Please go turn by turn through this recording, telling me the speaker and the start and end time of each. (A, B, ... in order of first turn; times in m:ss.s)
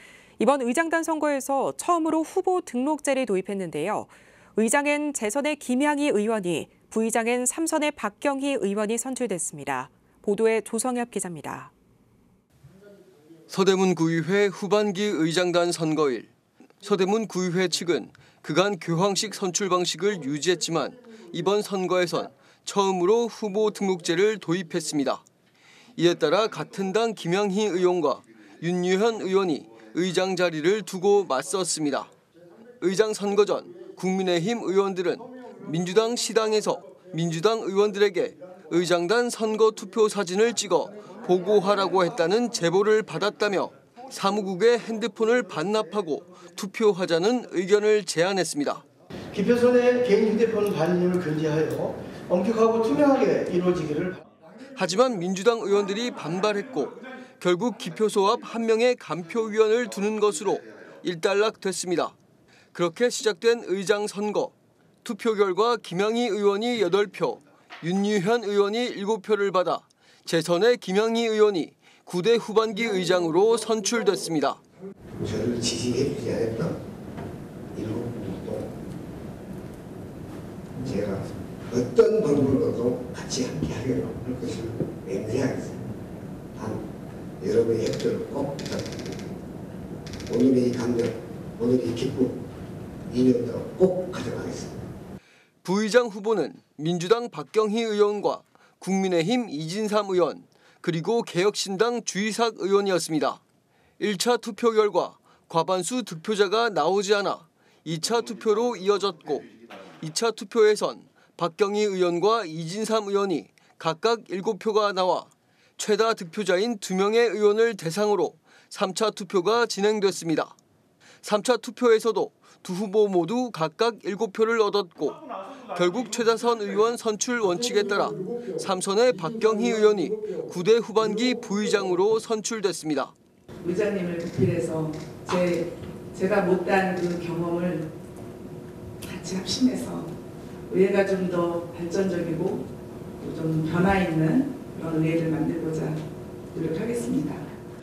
0:00.4-0:11.7 A
0:13.5-0:16.3 B
0:16.8-0:25.2 B
0:26.0-0:32.1 B
0:32.8-0:48.8 B
0:49.3-0:54.2 C
0:54.7-1:02.1 B
1:02.7-1:14.6 B
1:15.2-1:16.7 D
1:17.7-1:18.7 D
1:20.8-1:25.8 D
1:26.5-1:26.8 D
1:27.4-1:29.2 D
1:30.3-1:32.4 D
1:33.1-1:34.8 D
1:35.6-1:43.4 B
1:44.0-1:49.5 B
1:50.0-2:00.6 B
2:01.2-2:13.1 B
2:13.6-2:17.9 E
2:19.0-2:20.1 E
2:20.7-2:22.7 E
2:23.2-2:26.0 E
2:26.5-2:27.4 E